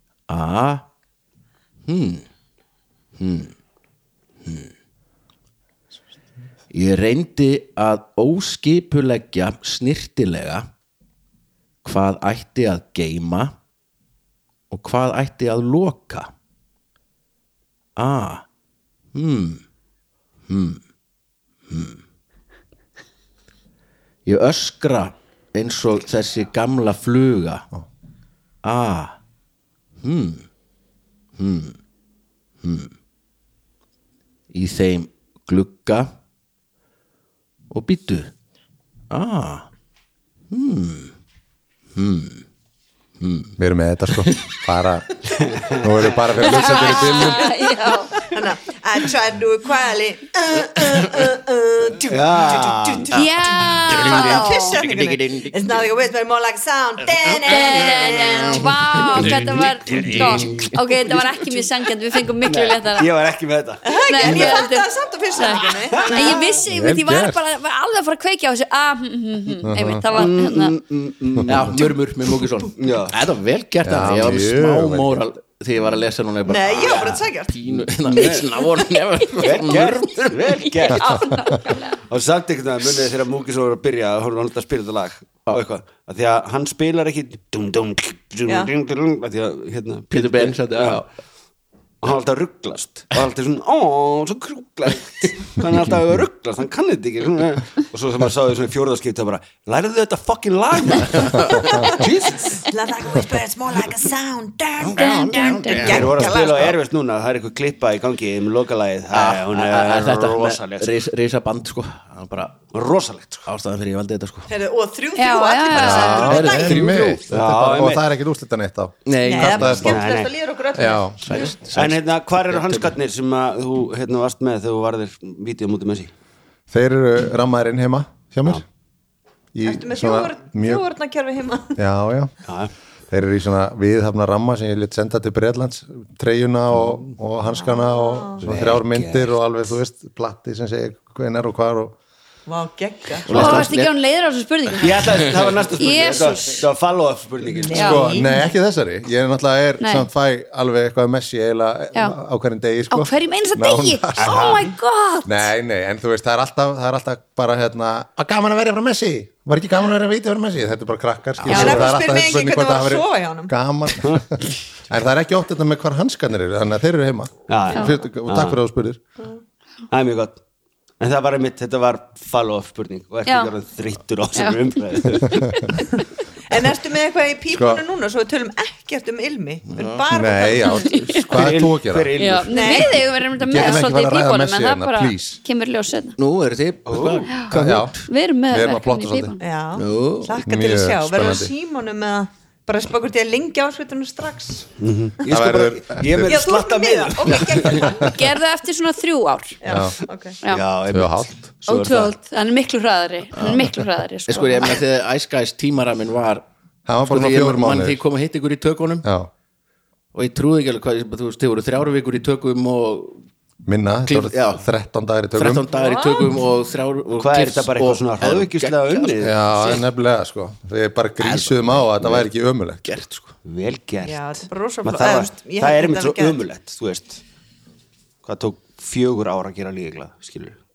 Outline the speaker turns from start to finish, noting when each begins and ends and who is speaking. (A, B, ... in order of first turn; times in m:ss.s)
0:00.3-0:00.8 A
0:01.9-0:02.2 A
0:03.2-0:03.5 A
0:04.4-0:04.7 A
0:06.7-0:10.7 A
0:11.8-0:13.6 A
0:14.7-0:16.3 A
0:18.0-0:18.4 A
0:19.1-0:19.6 A
0:20.5-0:20.8 A
0:21.7-0:22.0 A
0:24.2-0:27.7 A
0:28.6-0:29.2 A
0:30.0-0:30.5 A
0:31.4-0:31.8 A
0:32.6-0:32.9 A
0:34.5-0:36.2 A
0:37.7-0:38.3 A
0:39.1-0:39.7 A
0:40.5-0:41.1 A
0:41.9-0:42.4 A
0:43.2-0:43.6 A
0:43.6-0:47.5 B
0:44.1-0:44.6 A
0:46.5-0:48.3 C
0:47.8-0:58.6 D
0:52.1-0:53.1 E
0:53.1-0:54.8 C
0:53.1-0:55.9 A
0:57.1-1:00.7 A
0:57.4-1:03.1 C
0:59.1-1:00.7 E
1:02.4-1:04.6 E
1:03.8-1:06.5 D
1:04.0-1:10.8 C
1:05.9-1:06.6 E
1:06.6-1:07.4 B
1:09.6-1:10.1 B
1:10.1-1:12.0 E
1:11.4-1:20.6 A
1:12.8-1:13.2 E
1:13.8-1:15.2 B
1:16.4-1:17.5 D
1:18.1-1:18.5 E
1:19.4-1:21.3 E
1:20.6-1:22.0 C
1:22.1-1:31.0 E
1:28.4-1:28.7 D
1:30.1-1:31.1 A
1:32.0-1:42.6 E
1:41.0-1:42.1 A
1:42.5-1:46.8 D
1:44.8-1:46.5 A
1:45.0-1:46.0 C
1:45.7-1:51.0 E
1:49.1-1:52.6 A
1:52.7-1:53.5 E
1:53.4-1:54.5 A
1:54.5-1:57.0 D
1:55.2-1:56.7 C
1:55.8-1:57.3 A
1:55.8-2:00.0 B
1:57.3-1:58.0 E
1:59.0-1:59.9 A
1:59.2-2:01.4 D
1:59.7-2:00.3 E
2:00.7-2:01.3 B
2:01.2-2:02.9 A
2:01.7-2:06.1 E
2:06.7-2:08.6 B
2:09.5-2:10.8 B
2:09.6-2:11.8 D
2:11.8-2:12.3 B
2:12.5-2:12.7 E
2:13.1-2:22.0 B
2:17.5-2:18.4 D
2:18.4-2:19.4 E
2:22.4-2:23.7 D
2:23.2-2:26.7 C
2:23.3-2:23.9 A
2:24.7-2:25.6 A
2:24.8-2:28.0 E
2:27.6-2:28.4 D
2:27.7-2:28.1 C
2:27.8-2:34.6 B
2:29.8-2:30.1 C
2:32.9-2:35.4 C
2:34.2-2:34.7 E
2:35.2-2:49.0 B
2:41.4-2:41.8 C
2:41.5-2:43.5 D
2:41.5-2:41.7 A
2:47.5-2:48.6 E
2:49.9-2:50.4 E
2:51.0-2:55.6 E
2:53.2-2:53.5 C
2:54.4-2:55.8 C
2:56.5-3:00.9 D
2:57.5-2:57.8 B
2:59.7-3:00.0 A
3:00.1-3:02.3 B
3:00.7-3:01.4 C
3:01.3-3:02.9 E
3:02.2-3:06.2 C
3:02.5-3:03.0 D
3:03.0-3:05.4 B
3:06.2-3:08.1 A
3:06.9-3:07.3 E
3:07.3-3:07.5 C
3:07.5-3:09.4 B
3:08.0-3:09.4 C
3:09.4-3:14.7 D
3:09.8-3:10.4 A
3:10.4-3:11.5 B
3:14.8-3:17.9 E
3:15.3-3:16.4 B
3:16.3-3:18.2 D
3:17.8-3:19.6 C
3:17.8-3:18.1 B
3:19.6-3:20.4 D
3:19.7-3:19.9 B
3:20.4-3:20.7 C
3:20.4-3:22.2 E
3:20.9-3:21.3 B
3:21.7-3:24.8 C
3:23.3-3:23.7 A
3:24.3-3:26.4 A
3:26.8-3:28.0 B
3:27.0-3:29.1 A
3:29.0-3:29.3 B
3:30.1-3:33.2 A
3:33.6-3:35.7 B
3:34.1-3:34.6 A
3:35.3-3:39.8 A
3:35.7-3:36.5 D
3:37.2-3:39.8 E
3:39.2-3:42.8 B
3:41.2-3:42.3 A
3:42.8-3:43.3 A
3:43.4-3:47.2 E
3:44.0-3:46.4 D
3:48.2-3:50.6 E